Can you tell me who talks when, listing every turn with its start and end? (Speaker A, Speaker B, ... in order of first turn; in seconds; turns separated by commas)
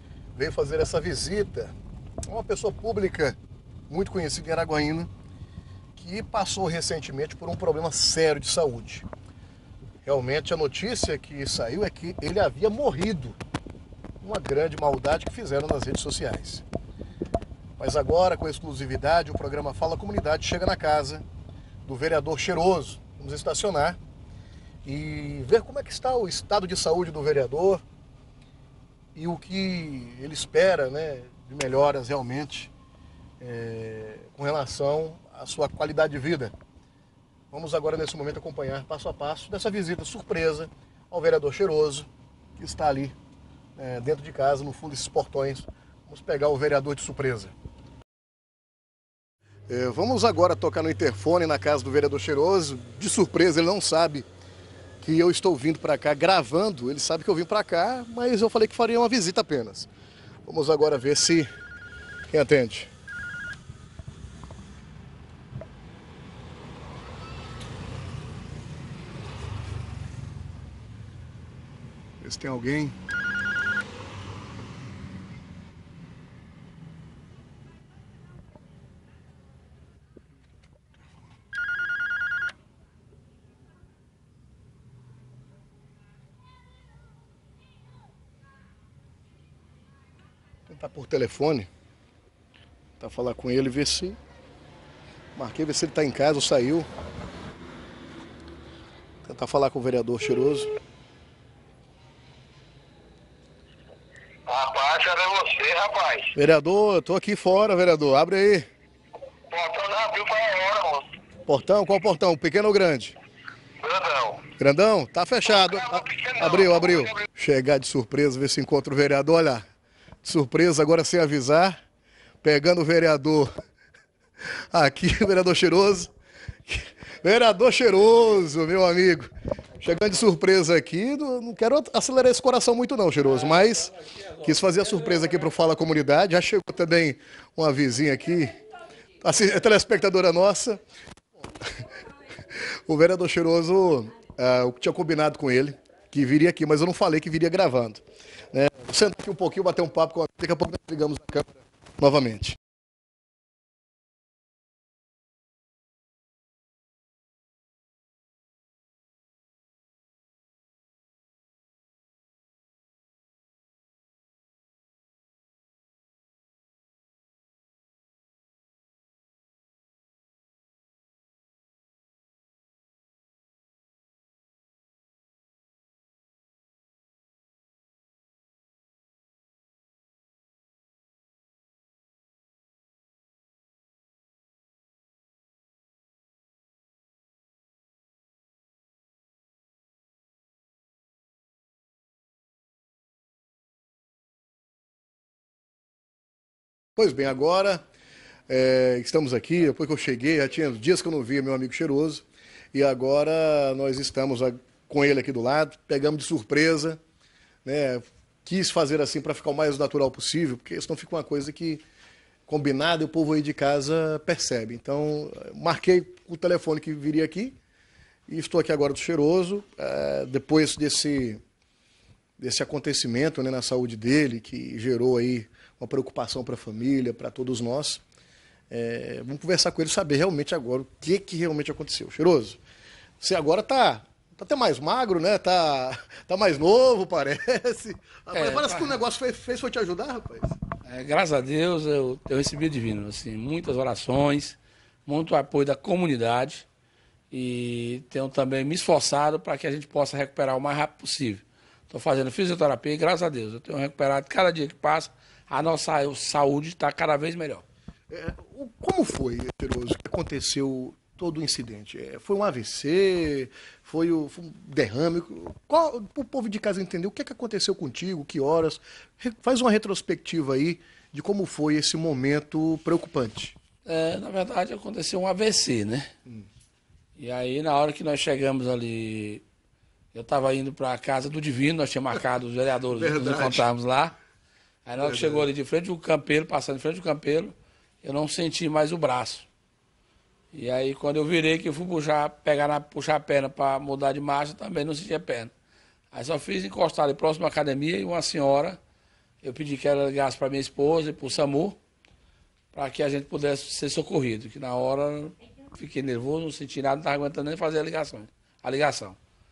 Speaker A: 0.4-1.7, Speaker A: 2.3-3.4, Speaker A: 3.9-5.1, Speaker A: 6.0-9.1, Speaker A: 10.1-13.4, Speaker A: 14.2-16.6, Speaker A: 17.8-21.2, Speaker A: 21.9-24.0, Speaker A: 24.9-27.8, Speaker A: 29.2-32.7, Speaker A: 33.4-36.5, Speaker A: 37.5-43.1, Speaker A: 43.8-47.5, Speaker A: 49.7-54.3, Speaker A: 55.0-59.9, Speaker A: 60.5-61.5, Speaker A: 62.3-62.9, Speaker A: 72.2-73.0, Speaker A: 90.7-91.7, Speaker A: 93.0-94.2, Speaker A: 95.4-96.9, Speaker A: 99.2-100.7, Speaker B: 104.5-106.3, Speaker A: 106.3-108.7, Speaker B: 109.5-111.1, Speaker A: 111.5-113.2, Speaker B: 113.9-114.4, Speaker A: 114.6-119.6, Speaker A: 120.2-121.8, Speaker A: 122.4-123.5, Speaker A: 124.7-126.1, Speaker A: 126.7-138.6, Speaker A: 139.2-140.8, Speaker A: 142.5-152.6, Speaker A: 197.0-197.8, Speaker A: 198.5-207.0, Speaker A: 207.7-211.8, Speaker A: 212.5-217.6, Speaker A: 218.3-221.4, Speaker A: 222.4-228.0, Speaker A: 228.7-232.6, Speaker A: 233.2-240.6, Speaker C: 238.3-239.0, Speaker C: 240.8-246.7, Speaker C: 247.3-257.6, Speaker A: 258.1-273.6, Speaker C: 273.9-276.1, Speaker C: 277.2-279.4, Speaker C: 280.1-284.1, Speaker A: 282.9-283.7, Speaker C: 284.9-289.5, Speaker A: 285.0-285.5, Speaker C: 290.5-295.5, Speaker C: 296.1-298.8, Speaker C: 299.4-301.8, Speaker C: 302.7-309.2